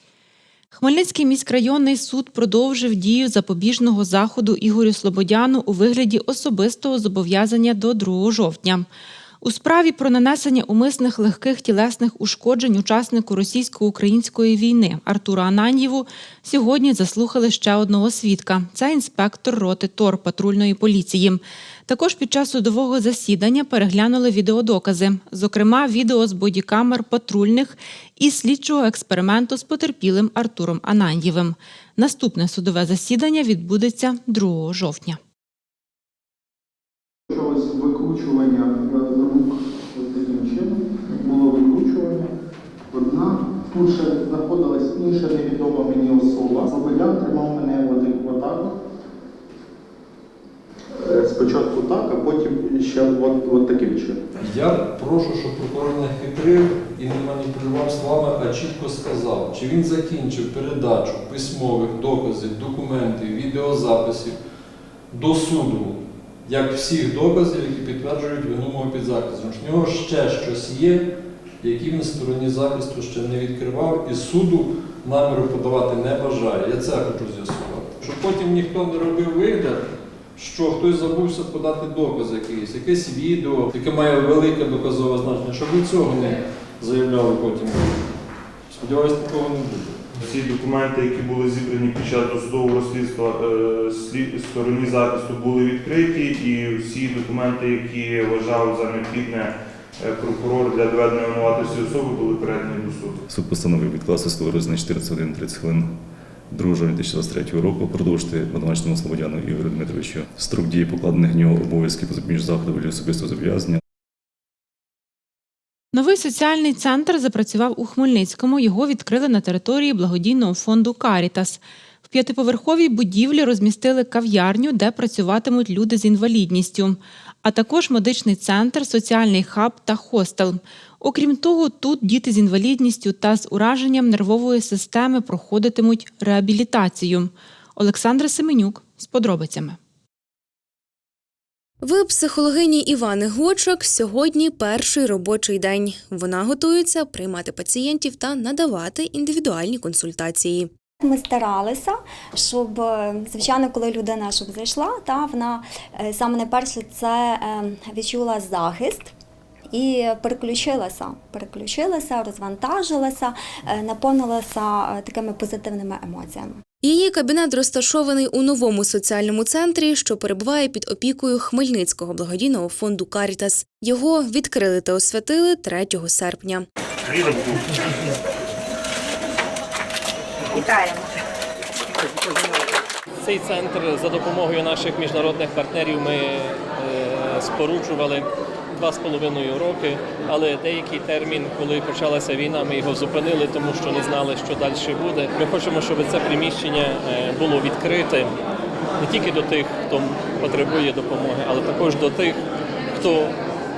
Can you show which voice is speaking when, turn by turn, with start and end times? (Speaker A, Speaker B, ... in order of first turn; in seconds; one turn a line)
Speaker A: 0.7-8.9
Speaker A: 9.4-35.2
Speaker B: 37.3-42.3
Speaker B: 42.9-48.8
Speaker B: 51.0-54.4
Speaker C: 54.5-64.4
Speaker C: 65.1-88.1
Speaker C: 88.7-90.0
Speaker D: 90.2-103.2
Speaker E: 103.3-105.9
Speaker E: 106.5-113.8
Speaker A: 115.9-139.8
Speaker F: 141.8-150.7
Speaker G: 152.5-155.6
Speaker G: 156.1-159.0
Speaker G: 159.8-166.4
Speaker F: 166.8-176.7
Speaker H: 183.2-198.3
Speaker H: 199.0-202.4
Speaker H: 202.9-203.3